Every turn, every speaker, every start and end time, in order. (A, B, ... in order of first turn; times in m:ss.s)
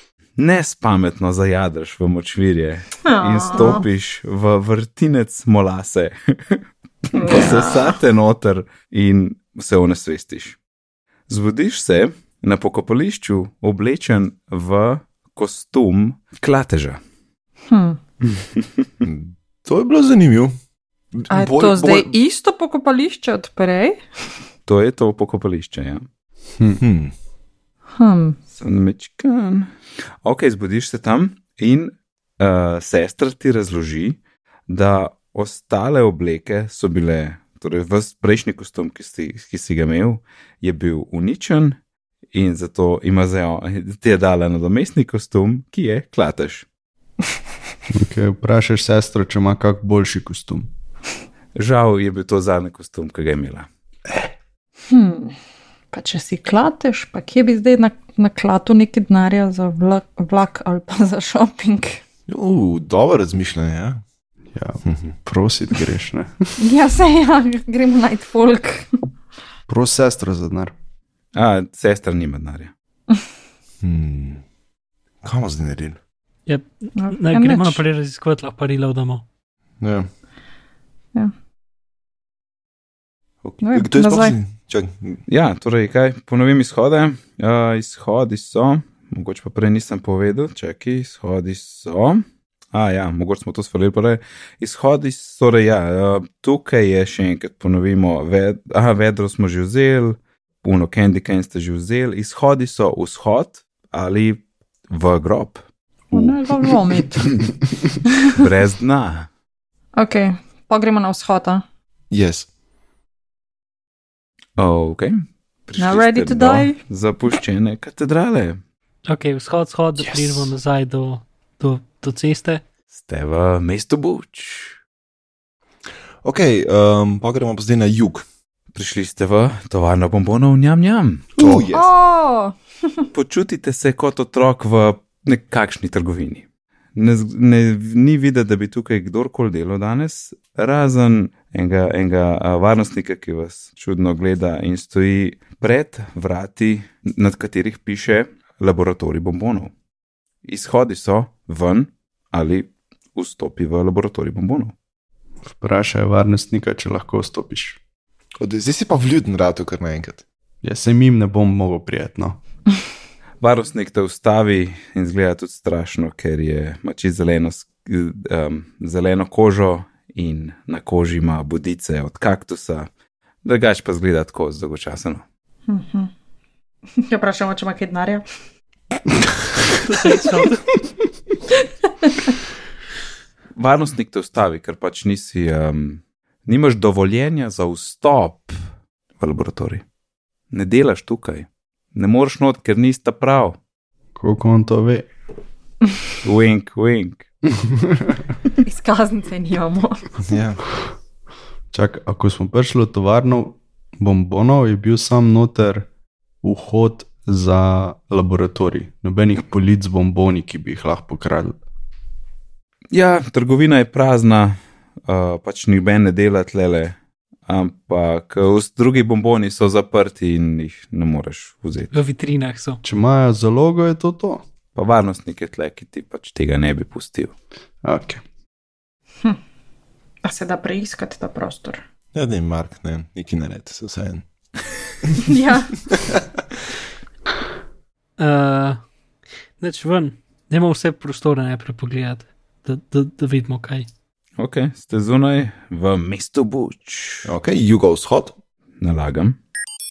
0:00.4-0:10.6 A
0:03.0-0:03.8 B
0:07.2-0:07.9 B
0:11.3-0:17.0 A
0:17.7-0:18.0 B
0:18.3-0:18.9 A
0:19.0-0:20.5 C
0:21.1-0:22.1 C
0:21.3-0:24.0 B
0:24.7-0:26.0 A
0:26.8-0:27.1 C
0:28.0-0:28.4 B
0:28.6-0:29.7 A
0:30.2-0:34.2 A
0:34.7-0:41.8 A
0:42.3-0:46.6 A
0:47.9-0:50.7 D
0:51.5-0:53.7 A
0:54.9-0:55.4 B
0:55.9-1:02.0 B
1:02.3-1:04.0 C
1:04.5-1:06.5 D
1:04.8-1:05.1 C
1:06.6-1:08.9 B
1:09.7-1:10.7 D
1:11.3-1:12.7 A
1:13.8-1:14.4 C
1:15.2-1:16.0 C
1:16.5-1:19.2 E
1:17.0-1:17.8 B
1:19.8-1:20.1 C
1:23.4-1:25.2 C
1:23.6-1:24.4 B
1:25.3-1:45.6 A
1:46.1-1:47.3 B
1:48.3-1:49.3 A
1:50.0-1:51.6 B
1:52.1-1:52.5 C
1:54.6-1:58.6 A
1:55.8-1:56.8 B
1:59.0-2:02.6 E
2:02.9-2:04.8 A
2:06.2-2:08.2 C
2:08.7-2:11.4 A
2:11.4-2:11.9 C
2:11.4-2:12.6 B
2:13.1-2:29.7 A
2:30.4-2:34.7 A
2:35.4-2:37.8 D
2:38.4-2:40.2 C
2:40.6-2:42.4 D
2:43.4-2:52.9 A
2:53.4-2:55.2 A
2:55.7-2:56.1 B
2:57.0-2:58.2 B
2:59.8-3:00.7 E
3:02.0-3:02.3 B
3:03.6-3:08.6 A
3:09.2-3:09.8 A
3:10.5-3:13.6 A
3:14.2-3:15.1 D
3:16.2-3:17.2 A
3:17.5-3:18.2 D
3:18.6-3:20.1 B
3:20.2-3:20.6 C
3:21.7-3:25.9 D
3:26.4-3:31.6 D
3:32.9-3:37.0 A
3:37.5-3:41.9 A
3:41.9-3:42.8 E
3:42.8-3:44.4 D
3:44.7-3:47.3 A
3:47.8-3:48.2 D
3:50.2-3:51.8 B
3:52.1-3:54.2 C
3:55.2-3:55.8 B
3:58.2-3:58.8 E
3:59.6-4:03.8 E
4:04.4-4:07.3 A
4:07.2-4:08.3 C
4:08.8-4:09.4 A